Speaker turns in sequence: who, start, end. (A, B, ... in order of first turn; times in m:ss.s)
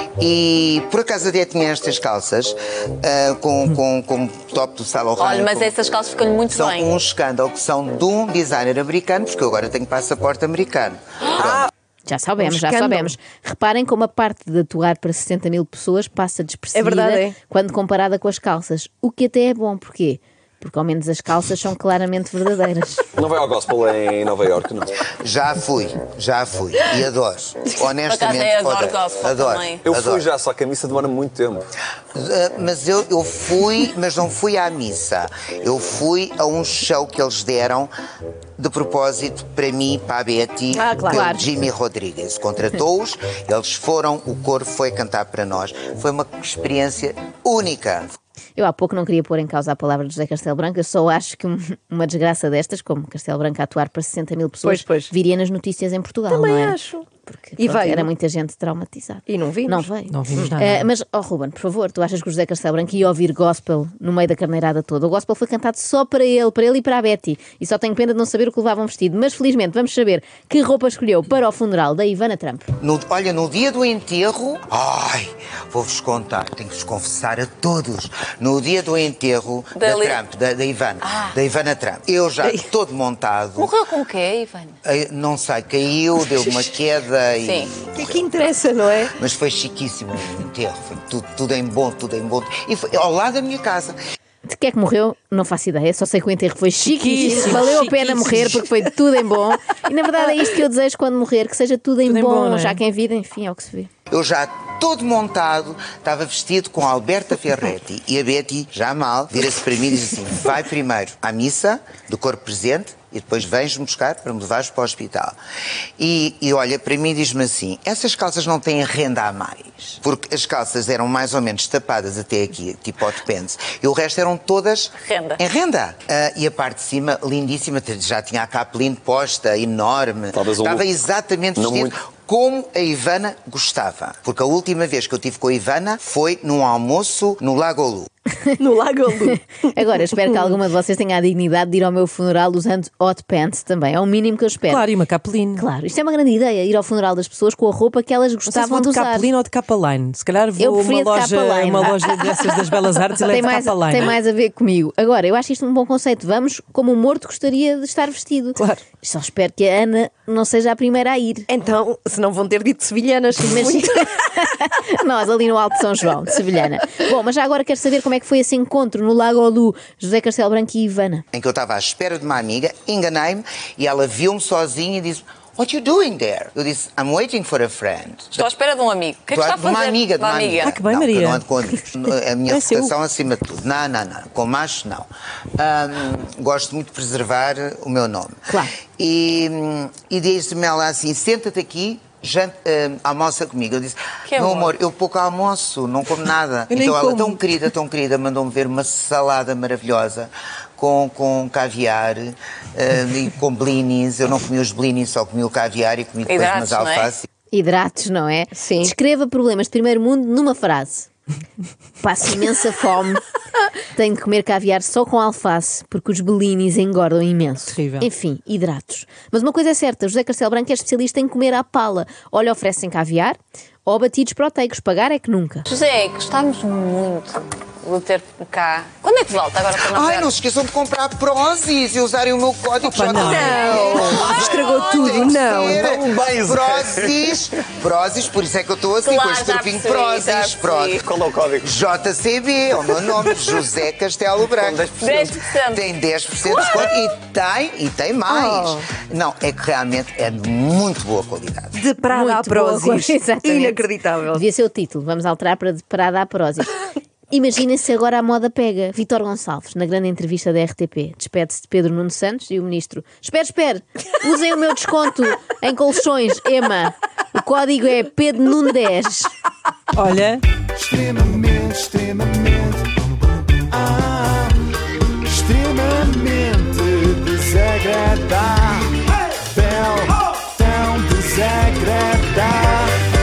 0:00.2-0:05.7 A
0:05.2-0:06.9 B
0:06.5-0:11.7 A
0:12.0-0:23.0 C
0:12.4-0:13.1 D
0:16.7-0:17.3 D
0:23.2-0:25.0 E
0:25.2-0:30.3 A
0:28.0-0:29.8 B
0:29.8-0:31.7 E
0:32.1-0:37.9 A
0:38.6-0:48.2 A
0:40.7-0:41.4 D
0:41.1-0:41.5 C
0:48.6-1:12.6 C
0:54.6-0:55.1 D
0:56.3-0:57.1 D
0:57.6-0:58.1 D
0:59.3-1:00.5 D
1:00.1-1:00.9 F
1:12.8-1:23.7 A
1:19.8-1:20.2 B
1:21.0-1:21.3 B
1:23.6-1:24.8 B
1:24.8-1:28.3 A
1:27.4-1:27.7 B
1:28.0-1:29.1 D
1:29.2-1:34.0 A
1:34.5-1:43.9 C
1:36.8-1:38.6 F
1:42.0-1:42.8 F
1:44.1-1:55.4 A
1:56.0-2:18.1 A
2:05.0-2:05.4 B
2:10.3-2:10.9 E
2:11.5-2:11.9 E
2:18.6-2:19.4 D
2:19.7-2:24.9 C
2:24.7-2:25.6 F
2:25.6-2:29.3 C
2:28.5-2:34.2 F
2:30.6-2:32.2 C
2:33.2-2:41.5 C
2:41.5-2:44.1 D
2:43.4-2:51.2 C
2:51.3-2:58.5 A
2:58.4-3:00.8 B
2:59.3-3:08.4 A
3:00.6-3:01.4 F
3:02.5-3:02.9 F
3:09.0-3:27.2 A
3:14.3-3:14.7 B
3:16.7-3:17.4 F
3:26.2-3:27.1 B
3:27.5-3:31.1 C
3:28.5-3:28.9 D
3:32.0-3:33.2 C
3:33.9-3:45.6 C
3:37.7-3:38.1 F
3:45.7-3:50.3 B
3:49.8-4:01.0 A
3:52.9-3:54.2 F
3:53.1-3:55.9 D
3:54.0-3:55.3 B
3:55.8-3:57.2 E
3:59.0-4:01.1 B
4:01.0-4:01.7 E
4:01.6-4:04.9 A
4:04.6-4:05.3 E
4:05.0-4:05.9 B
4:05.6-4:11.8 A
4:08.3-4:08.8 D
4:11.7-4:14.4 D
4:12.1-4:16.7 C
4:17.3-4:29.3 C
4:29.9-4:30.4 F
4:30.7-4:32.9 G
4:33.7-4:34.5 G
4:35.2-4:38.9 G
4:39.5-4:42.9 G